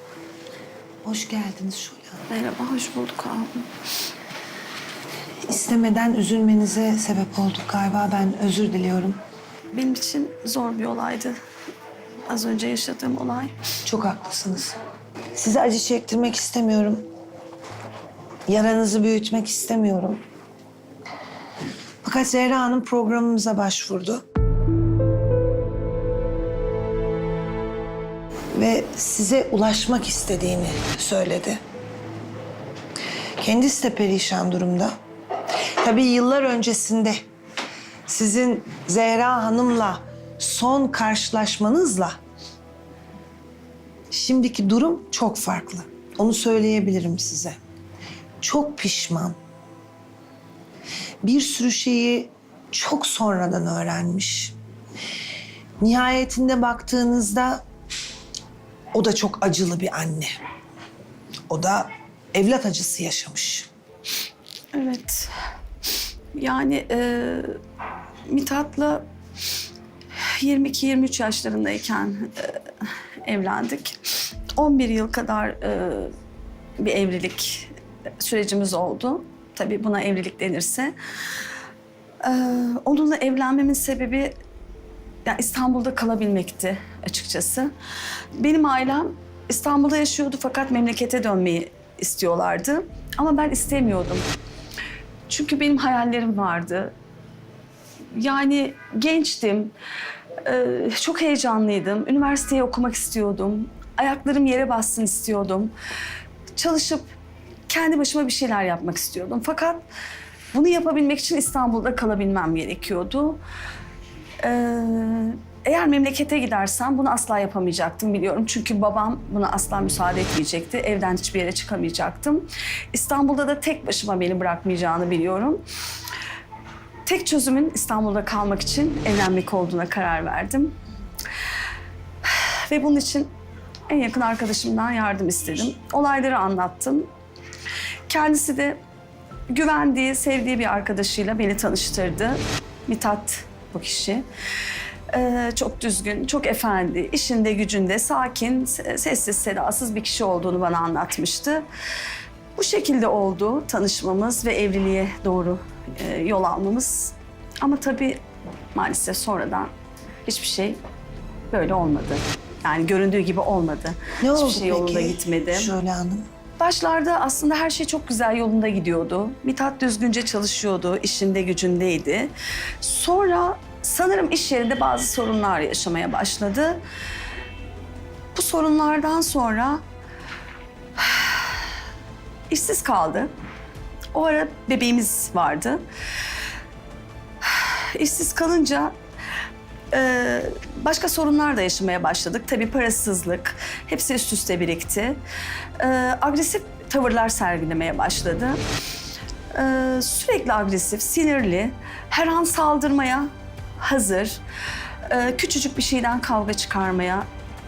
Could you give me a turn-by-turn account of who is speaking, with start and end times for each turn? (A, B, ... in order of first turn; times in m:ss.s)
0:01.0-0:02.2 A
0:02.3-0:03.7 B
0:05.5-0:09.2 A
0:09.7-0:11.4 B
0:12.3-0:13.5 B
0:13.8-0:14.8 A
0:15.4-0:17.0 A
0:18.5-0:20.2 A
0:22.0-0:24.2 A
0:28.5-0:31.6 A
0:33.4-0:34.9 A
0:35.8-0:37.2 A
0:38.1-0:42.2 A
0:44.1-0:47.6 A
0:48.4-0:49.4 A
0:51.2-0:54.5 A
0:55.8-0:57.6 A
0:58.9-1:00.4 A
1:01.5-1:03.7 A
1:04.7-1:05.3 B
1:06.3-1:07.5 B
1:08.3-1:09.0 B
1:10.2-1:16.1 B
1:16.8-1:20.9 B
1:22.2-1:24.3 B
1:25.2-1:27.7 B
1:28.4-1:34.3 B
1:35.3-1:36.9 B
1:38.1-1:39.7 B
1:40.4-1:45.7 B
1:46.5-1:47.1 B
1:47.7-1:49.8 B
1:50.5-1:53.4 B
1:54.4-2:05.6 B
2:07.0-2:10.8 B
2:12.2-2:13.3 B
2:13.9-2:17.1 B
2:18.1-2:18.8 B
2:19.5-2:24.2 B
2:25.1-2:31.6 B
2:32.5-2:38.2 B
2:38.7-2:39.7 B
2:40.2-2:40.8 B
2:41.5-2:45.7 B
2:44.2-2:46.2 A
2:46.6-2:56.8 B
2:58.3-2:59.8 B
3:01.0-3:01.5 B
3:02.5-3:03.3 B
3:04.1-3:05.8 B
3:07.4-3:08.9 B
3:09.9-3:15.2 B
3:15.8-3:18.6 B
3:19.5-3:24.4 B
3:25.0-3:27.3 B